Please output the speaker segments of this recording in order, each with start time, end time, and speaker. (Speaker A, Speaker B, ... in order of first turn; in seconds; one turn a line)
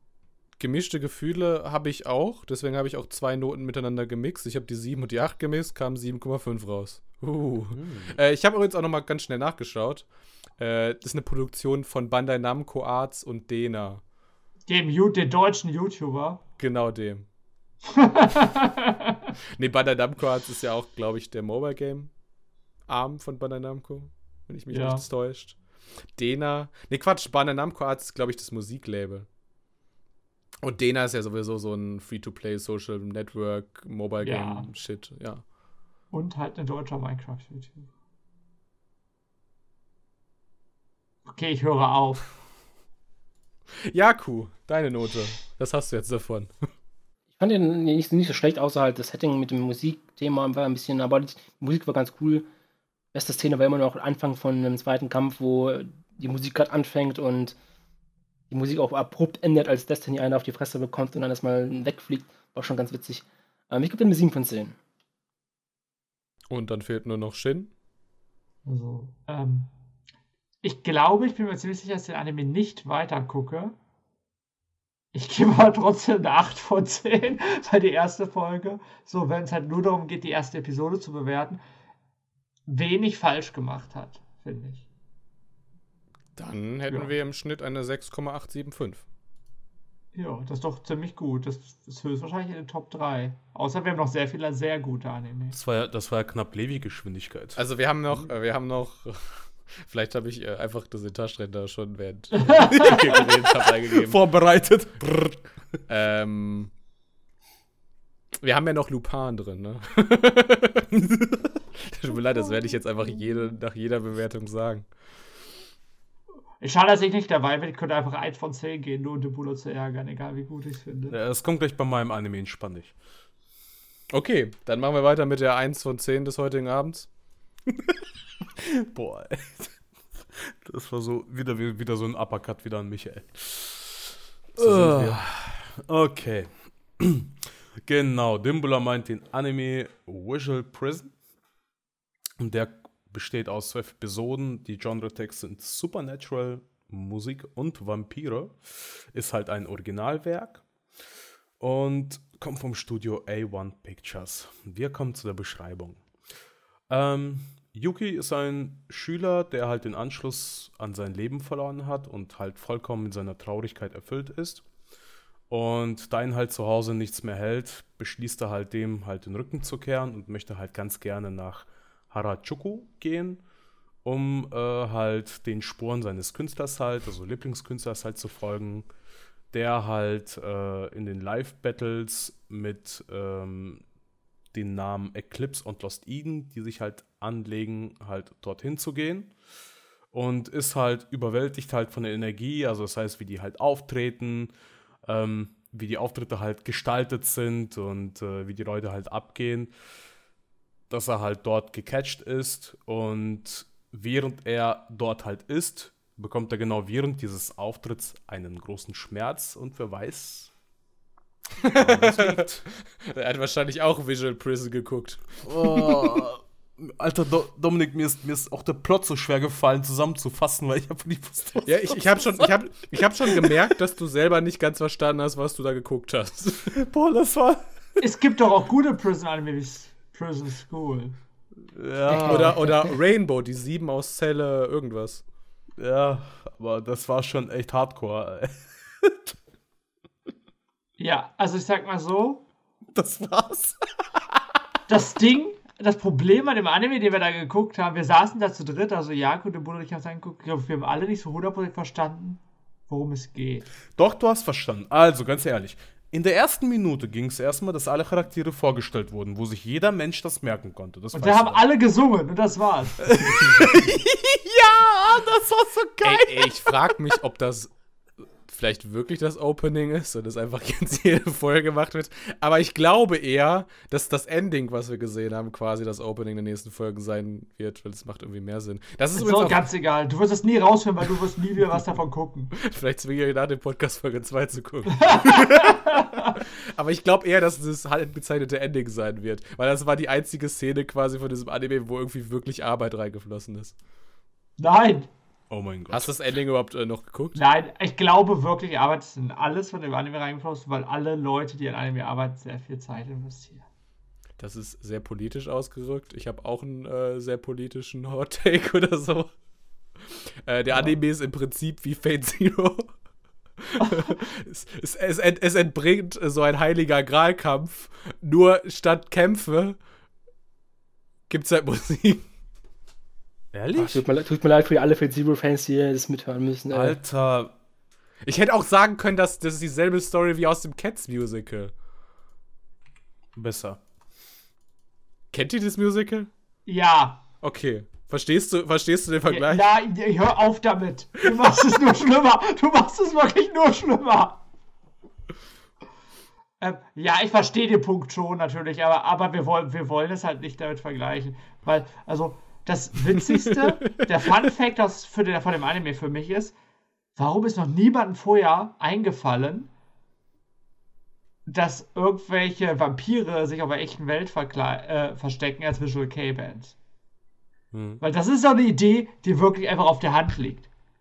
Speaker A: 0.6-10.1
Speaker B: 7.7-8.2
Speaker A: 10.6-14.0
Speaker C: 14.7-16.4
Speaker A: 16.6-17.3
Speaker C: 17.9-19.2
Speaker A: 19.6-22.1
Speaker A: 22.9-25.6
Speaker C: 24.7-25.1
Speaker A: 26.1-29.3
Speaker A: 30.6-35.4
Speaker C: 34.2-34.7
Speaker C: 36.1-37.9
Speaker C: 41.3-42.2
Speaker A: 43.9-46.5
Speaker D: 47.4-52.5
Speaker D: 53.1-57.5
Speaker D: 58.5-64.8
Speaker A: 66.5-67.7
Speaker C: 68.7-69.7
Speaker C: 70.6-73.8
Speaker C: 75.1-81.6
Speaker C: 82.7-84.8
Speaker A: 86.4-89.0
Speaker C: 90.1-95.6
Speaker B: 95.5-97.6
Speaker A: 97.6-104.2
Speaker C: 102.4-102.7
Speaker B: 102.6-105.5
Speaker A: 105.9-106.7
Speaker A: 108.4-110.9
Speaker B: 110.9-111.5
Speaker A: 111.8-114.9
Speaker C: 116.6-121.2
Speaker B: 121.1-122.9
Speaker A: 124.1-127.1
Speaker B: 127.7-128.0
Speaker B: 128.6-129.8
Speaker B: 130.4-141.1
Speaker A: 134.6-135.2
Speaker B: 142.4-150.7
Speaker B: 151.6-156.0
Speaker B: 156.9-164.7
Speaker B: 165.5-173.4
Speaker B: 174.0-178.9
Speaker B: 179.5-183.8
Speaker B: 184.5-189.3
Speaker B: 190.1-194.5
Speaker B: 195.0-199.7
Speaker B: 200.9-210.5
Speaker A: 211.6-216.2
Speaker B: 211.8-212.7
Speaker B: 215.4-222.6
Speaker A: 221.7-226.8
Speaker B: 223.2-223.6
Speaker B: 226.8-227.6
Speaker C: 228.0-231.2
Speaker B: 231.7-232.7
Speaker D: 232.1-232.9
Speaker A: 232.2-235.2
Speaker B: 235.8-239.3
Speaker C: 241.0-242.4
Speaker B: 242.9-243.8
Speaker C: 244.9-253.7
Speaker B: 253.9-261.7
Speaker C: 261.1-263.3
Speaker B: 263.1-266.8
Speaker A: 266.0-267.7
Speaker A: 268.5-279.6
Speaker C: 279.1-282.6
Speaker A: 282.6-293.8
Speaker C: 285.0-286.4
Speaker C: 294.6-295.1
Speaker B: 295.5-296.1
Speaker A: 295.9-297.4
Speaker C: 297.4-303.7
Speaker A: 304.4-309.3
Speaker A: 310.5-312.9
Speaker C: 310.7-311.0
Speaker A: 313.6-319.8
Speaker A: 321.3-322.2
Speaker B: 323.5-324.1
Speaker D: 323.8-327.0
Speaker B: 326.7-327.5
Speaker A: 328.2-331.7
Speaker B: 333.4-333.8
Speaker A: 335.3-336.3
Speaker C: 336.7-337.2
Speaker A: 337.4-339.8
Speaker C: 339.3-344.4
Speaker C: 346.6-356.6
Speaker A: 353.4-353.9
Speaker C: 357.2-359.7
Speaker C: 361.5-366.8
Speaker B: 367.7-368.0
Speaker C: 368.0-370.7